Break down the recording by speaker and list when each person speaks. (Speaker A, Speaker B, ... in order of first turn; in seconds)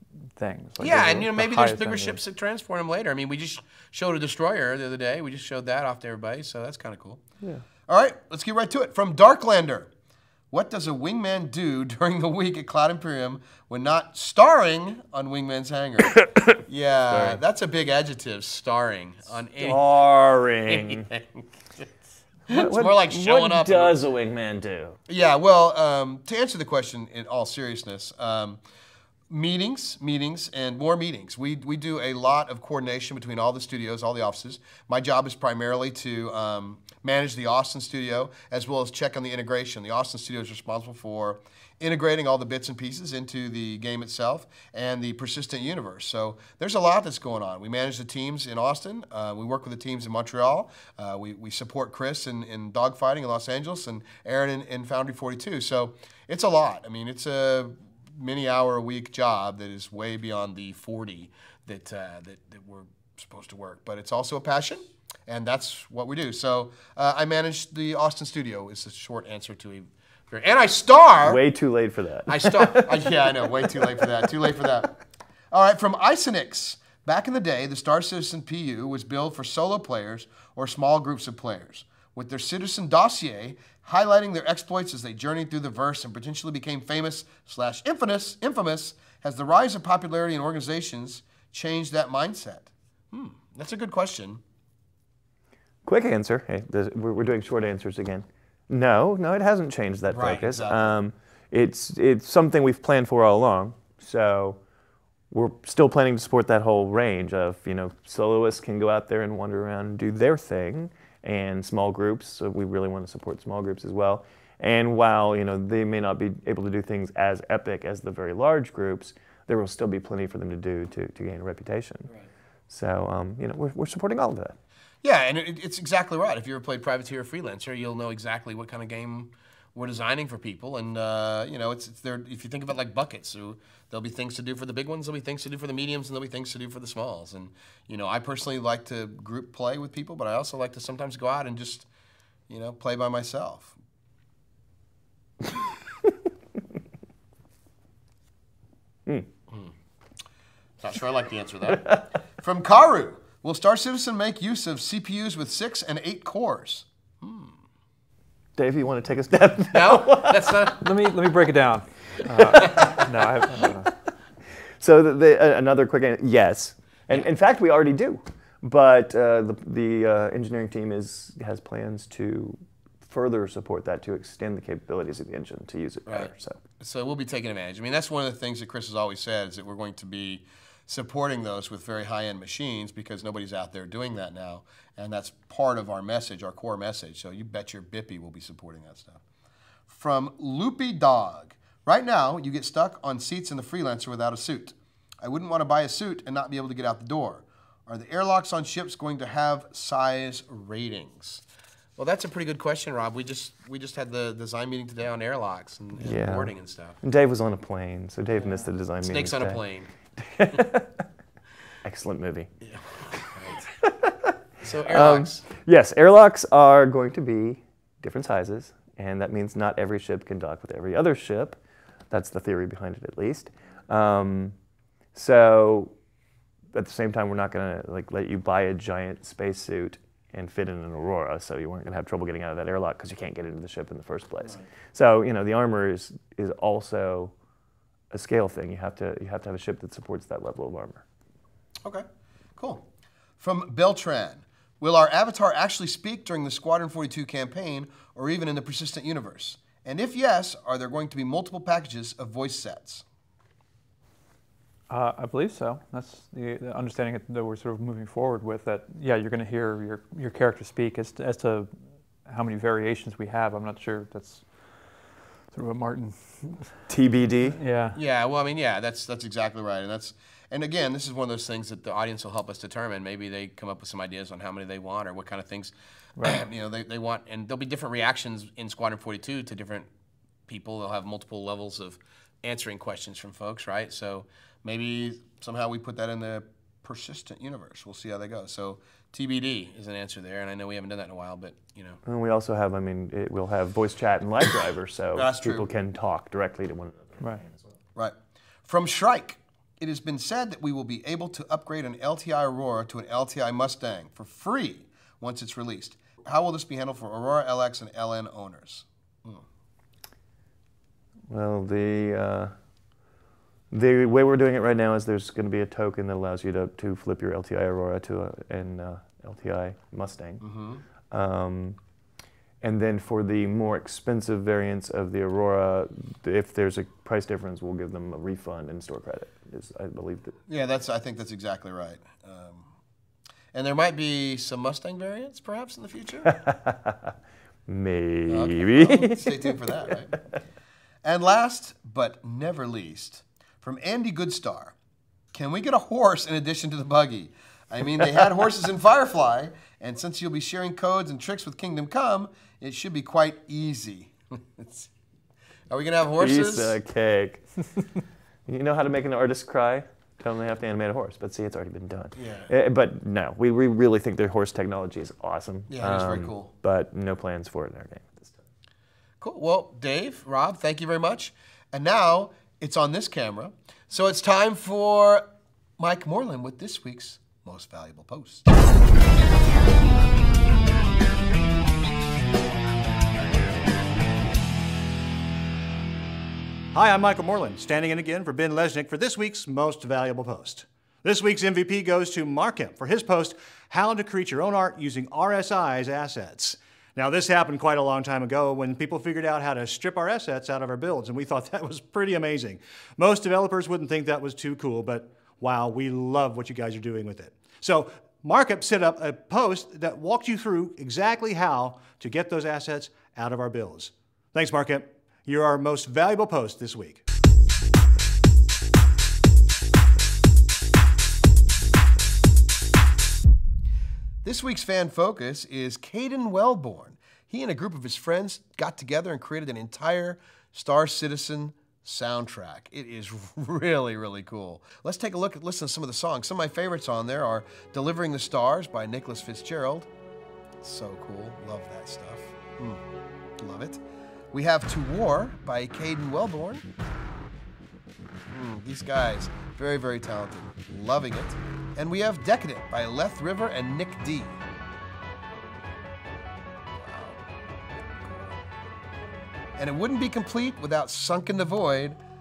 Speaker A: 0.4-2.2, 160.8-163.9, 254.9-261.7, 262.2-264.4, 265.5-266.7, 267.6-268.0
Speaker B: 0.8-7.2, 7.9-9.9, 10.5-19.8, 20.7-21.9, 22.5-23.9, 25.1-28.6, 29.3-71.4, 72.3-75.0, 75.5-94.4, 100.1-100.9, 125.0-141.8, 142.5-143.7, 150.8-157.6, 159.7-160.8, 176.1-189.2, 189.9-201.4, 202.0-207.0, 209.0-209.9, 212.6-213.7, 214.6-215.4, 241.8-242.8, 243.4-253.0, 267.9-279.9, 280.5-292.0, 295.1-295.6, 298.6-309.4, 320.4-320.8, 330.5-332.7, 333.5-336.3, 338.3-340.2, 341.0-344.7, 345.3-354.9, 355.7-356.8, 362.2-362.5, 365.7-366.5, 369.2-375.3, 375.8-378.5, 424.2-439.9, 440.6-442.8, 443.4-443.8, 444.3-446.6, 448.3-454.4, 456.7-457.2, 458.0-458.4, 459.6-462.0
Speaker C: 17.1-17.4, 19.6-21.1, 22.5-25.0, 71.2-73.1, 95.8-104.6, 105.3-122.1, 122.7-124.6, 158.6-160.7, 164.8-176.6, 206.0-209.6, 210.2-211.0, 211.8-212.5, 213.8-214.3, 214.8-221.6, 222.1-224.6, 225.1-225.9, 226.7-237.3, 238.1-241.0, 266.9-267.6, 292.0-297.6, 311.3-312.5, 313.7-320.4, 321.1-321.8, 322.6-330.3, 336.3-337.1, 337.7-340.0, 356.1-357.4, 358.5-368.4
Speaker D: 386.7-417.0